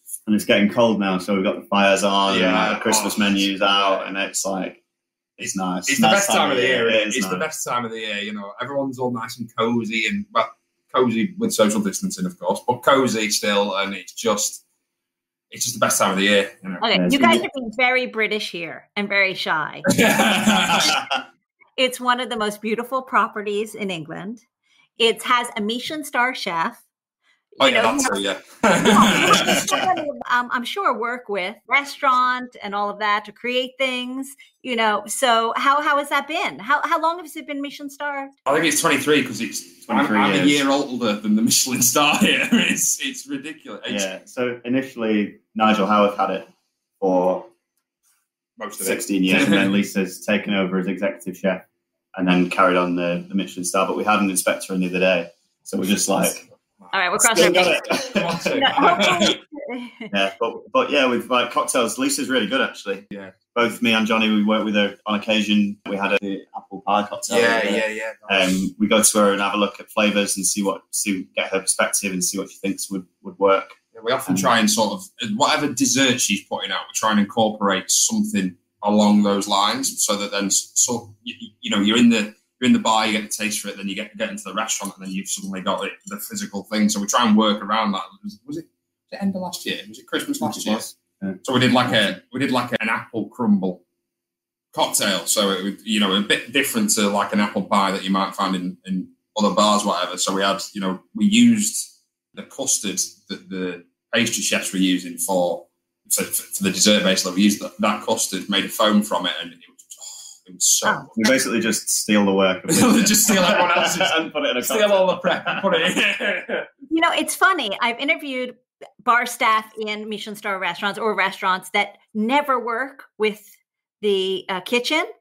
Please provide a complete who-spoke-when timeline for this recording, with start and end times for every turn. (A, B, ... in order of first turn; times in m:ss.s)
0:00.3-0:04.8 A
0:02.3-0:04.1 B
0:05.4-0:07.5 A
0:05.4-0:14.6 B
0:15.5-0:16.8 B
0:16.8-0:19.9 C
0:16.9-0:17.4 A
0:19.9-0:20.9 B
0:20.6-0:20.9 C
0:20.7-0:21.0 A
0:21.8-0:24.4 C
0:25.0-0:26.8 C
0:27.6-0:28.2 C
0:27.6-0:29.7 B
0:28.8-0:38.3 C
0:29.3-0:29.7 A
0:38.5-0:44.1 B
0:39.9-0:40.6 A
0:43.9-0:47.5 A
0:48.6-0:49.7 B
0:48.8-0:51.6 A
0:52.2-0:56.4 A
0:56.8-0:59.4 B
0:56.9-0:57.9 C
0:57.2-0:58.6 A
0:58.5-1:00.1 C
1:00.1-1:14.5 A
1:07.3-1:08.7 B
1:13.9-1:33.8 B
1:30.4-1:32.2 A
1:34.7-1:51.3 B
1:50.8-1:51.1 C
1:51.2-1:55.8 A
1:52.7-1:56.7 B
1:56.9-2:05.1 C